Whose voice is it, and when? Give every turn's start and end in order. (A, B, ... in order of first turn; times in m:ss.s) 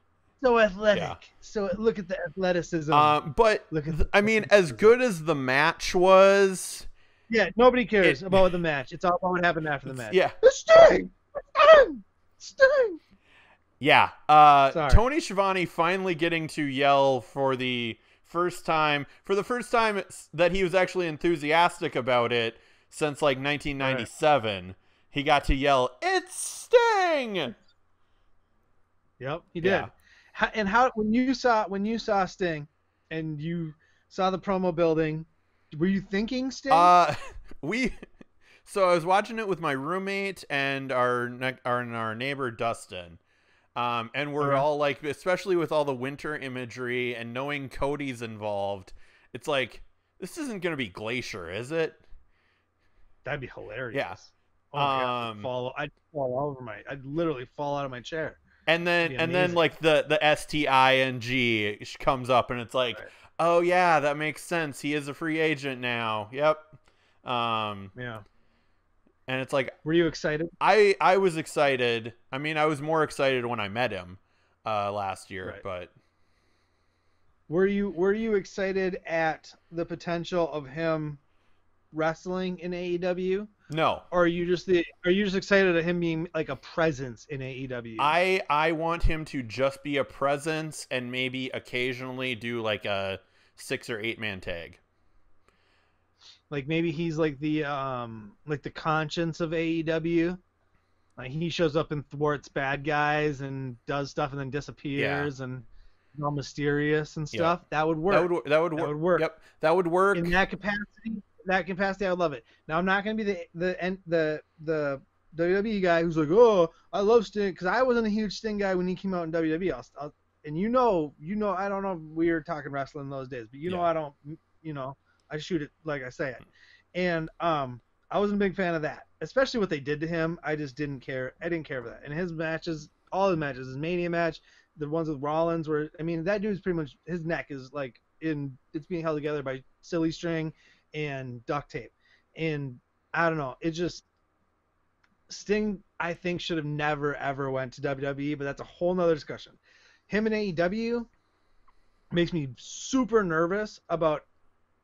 0:00.4-0:03.2 A
0:00.9-0:01.2 B
0:02.9-0:06.9 B
0:03.7-0:04.9 A
0:07.3-0:13.0 A
0:08.0-0:08.5 B
0:09.9-0:10.4 B
0:13.8-0:27.5 B
0:14.7-0:15.0 A
0:23.8-0:24.1 A
0:29.2-0:36.9 A
0:29.6-0:29.9 B
0:36.7-0:38.0 B
0:38.6-0:43.2 B
0:43.8-0:52.0 B
0:44.4-0:44.7 A
0:53.2-0:58.4 A
0:53.9-0:54.2 B
0:54.8-0:55.5 B
0:58.7-1:07.9 B
0:59.0-0:59.6 A
1:08.0-1:08.2 A
1:09.3-1:09.8 B
1:09.8-1:10.5 A
1:10.6-1:15.9 B
1:17.5-1:21.2 A
1:21.9-1:23.5 A
1:23.7-1:24.1 B
1:24.1-1:28.1 A
1:28.0-1:34.8 B
1:36.5-1:40.4 A
1:41.2-1:49.3 A
1:45.0-1:45.3 B
1:48.1-1:50.4 B
1:50.1-2:06.4 A
2:07.0-2:24.0 A
2:25.3-2:31.1 A
2:32.1-2:34.3 A